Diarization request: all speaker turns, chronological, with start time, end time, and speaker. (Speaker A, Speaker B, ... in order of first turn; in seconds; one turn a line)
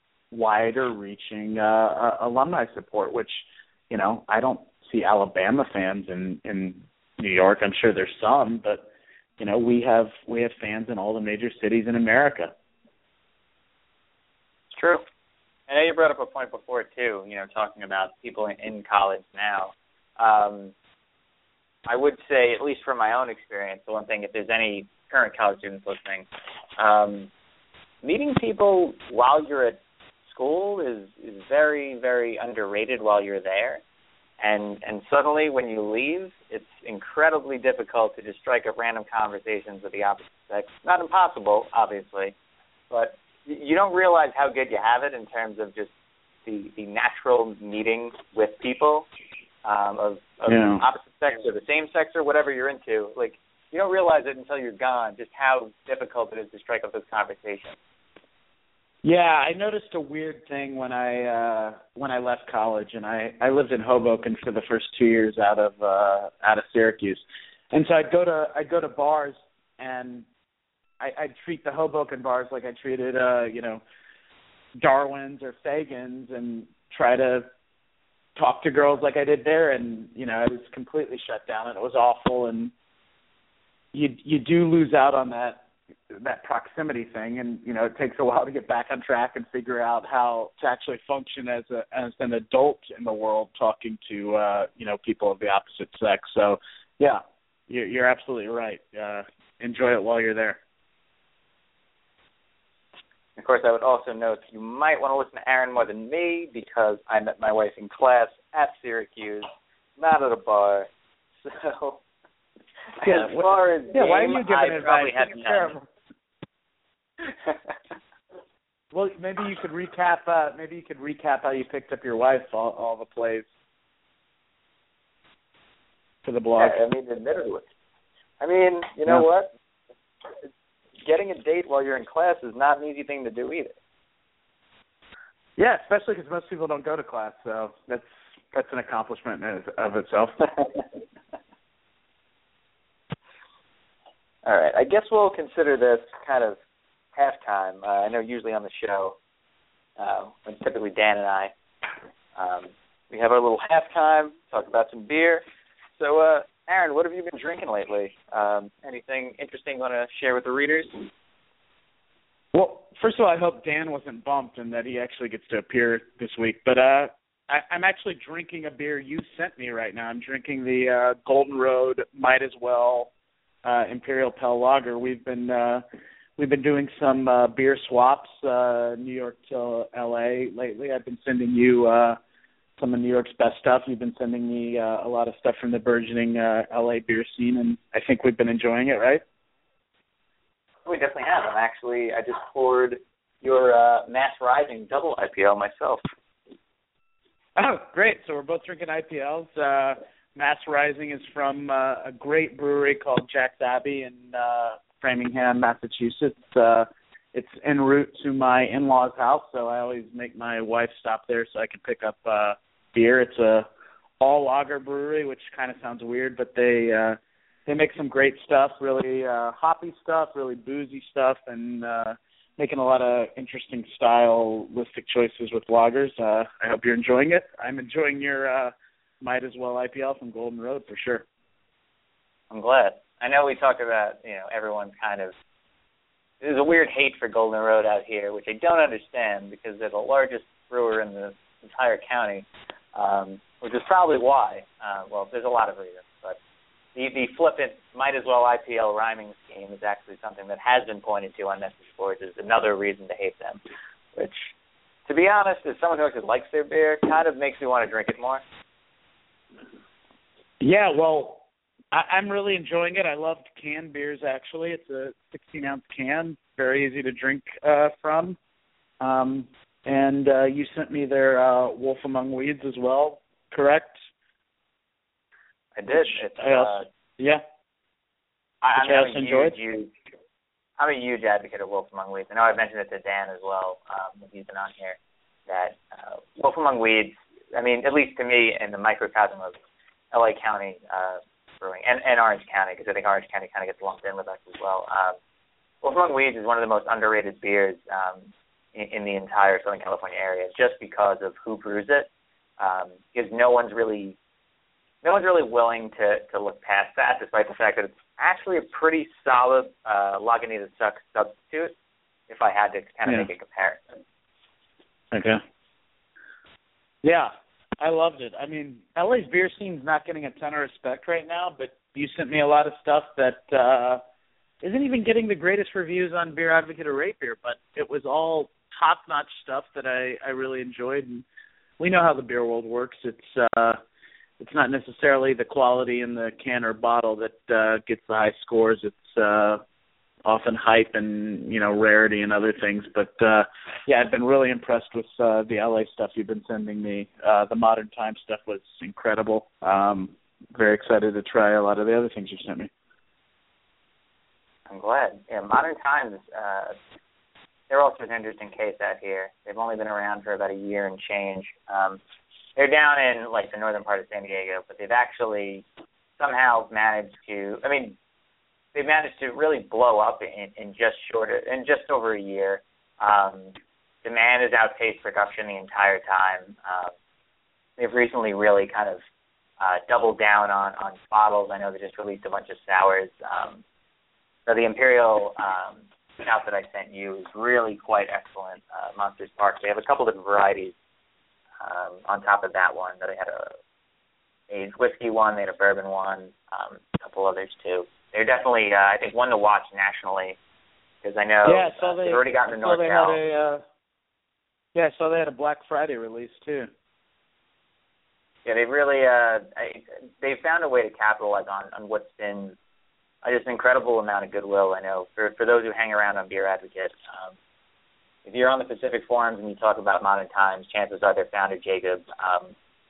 Speaker A: 0.3-8.9
Speaker A: 9.4-12.5
Speaker B: 14.7-15.0
Speaker B: 15.7-20.7
Speaker B: 21.9-27.3
Speaker B: 28.0-33.8
Speaker B: 34.4-42.3
Speaker B: 42.9-45.9
Speaker B: 46.5-49.1
Speaker B: 49.6-57.8
Speaker A: 50.5-50.8
Speaker A: 59.0-70.3
Speaker A: 71.0-73.8
Speaker A: 74.8-77.5
Speaker A: 78.4-82.7
Speaker A: 83.9-100.6
Speaker B: 103.4-110.9
Speaker B: 111.4-112.0
Speaker B: 113.0-115.8
Speaker A: 113.0-115.9
Speaker A: 118.9-123.5
Speaker A: 126.2-126.8
Speaker B: 126.6-127.7
Speaker B: 128.4-129.5
Speaker B: 131.0-133.8
Speaker A: 135.6-140.5
Speaker B: 144.4-146.6
Speaker B: 147.2-149.2
Speaker B: 150.0-151.5
Speaker B: 152.4-155.4
Speaker B: 156.0-161.1
Speaker A: 162.5-173.1
Speaker A: 173.6-175.8
Speaker A: 176.4-182.2
Speaker A: 182.8-189.2
Speaker B: 190.9-196.0
Speaker A: 197.6-213.7
Speaker A: 214.2-231.3
Speaker B: 232.5-235.3
Speaker B: 236.4-246.4
Speaker B: 246.9-253.6
Speaker B: 254.2-254.5
Speaker B: 255.1-258.4
Speaker A: 260.6-268.4
Speaker A: 269.0-274.0
Speaker B: 275.8-276.9
Speaker A: 275.9-277.4
Speaker B: 278.6-279.9
Speaker A: 278.8-279.6
Speaker B: 280.8-285.0
Speaker B: 285.5-289.6
Speaker B: 290.1-295.2
Speaker B: 295.8-304.2
Speaker B: 305.0-311.7
Speaker B: 312.3-313.8
Speaker A: 315.1-315.4
Speaker A: 317.0-324.0
Speaker A: 324.6-331.2
Speaker A: 331.8-333.8
Speaker A: 334.4-339.6
Speaker A: 340.2-352.7
Speaker B: 354.7-356.8
Speaker B: 357.7-362.0
Speaker B: 362.6-365.6
Speaker B: 366.2-368.0
Speaker B: 368.7-376.9
Speaker B: 377.8-379.0
Speaker B: 379.6-383.6
Speaker B: 384.5-390.7
Speaker B: 391.6-393.6
Speaker B: 394.5-400.4
Speaker B: 401.0-403.2
Speaker A: 401.4-403.6
Speaker A: 404.8-406.7
Speaker B: 408.4-412.6
Speaker B: 413.2-417.4
Speaker B: 418.2-422.5